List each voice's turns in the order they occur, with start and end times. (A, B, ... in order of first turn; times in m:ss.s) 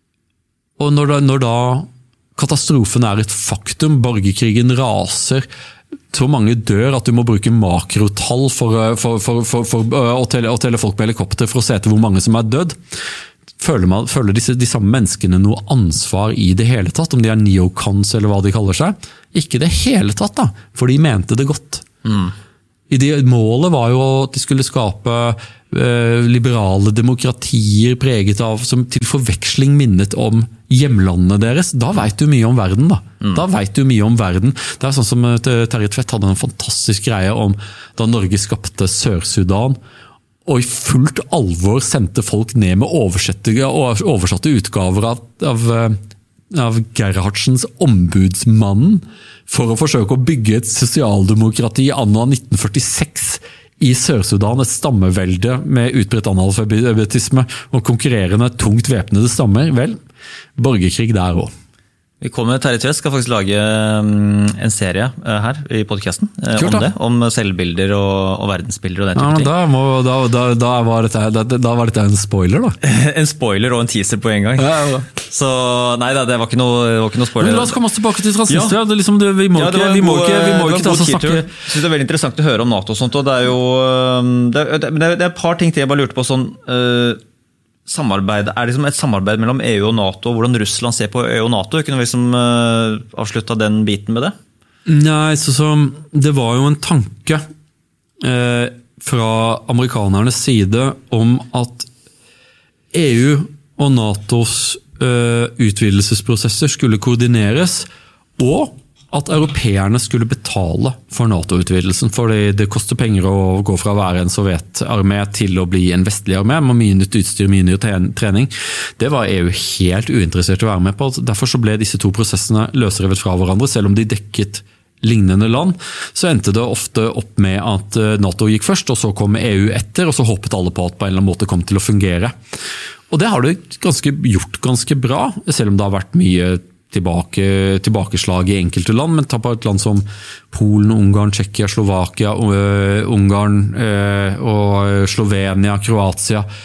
0:00.8-0:05.5 A
0:06.1-0:12.8 A
0:13.6-0:21.8 A
0:22.0-0:22.3 B
0:22.9-0:39.8 A
0:40.5-0:46.0 A
0:46.5-1:00.0 A
1:00.6-1:01.5 A
1:02.2-1:09.5 B
1:06.6-1:06.9 A
1:09.2-1:12.8 A
1:12.8-1:17.8 B
1:14.6-1:15.1 A
1:17.4-1:21.5 A
1:18.5-1:18.8 B
1:19.5-1:27.2 B
1:27.9-1:34.4 B
1:34.9-1:37.4 A
1:38.2-1:41.9 A
1:42.9-1:47.9 A
1:48.4-2:12.3 A
2:13.1-2:26.5 A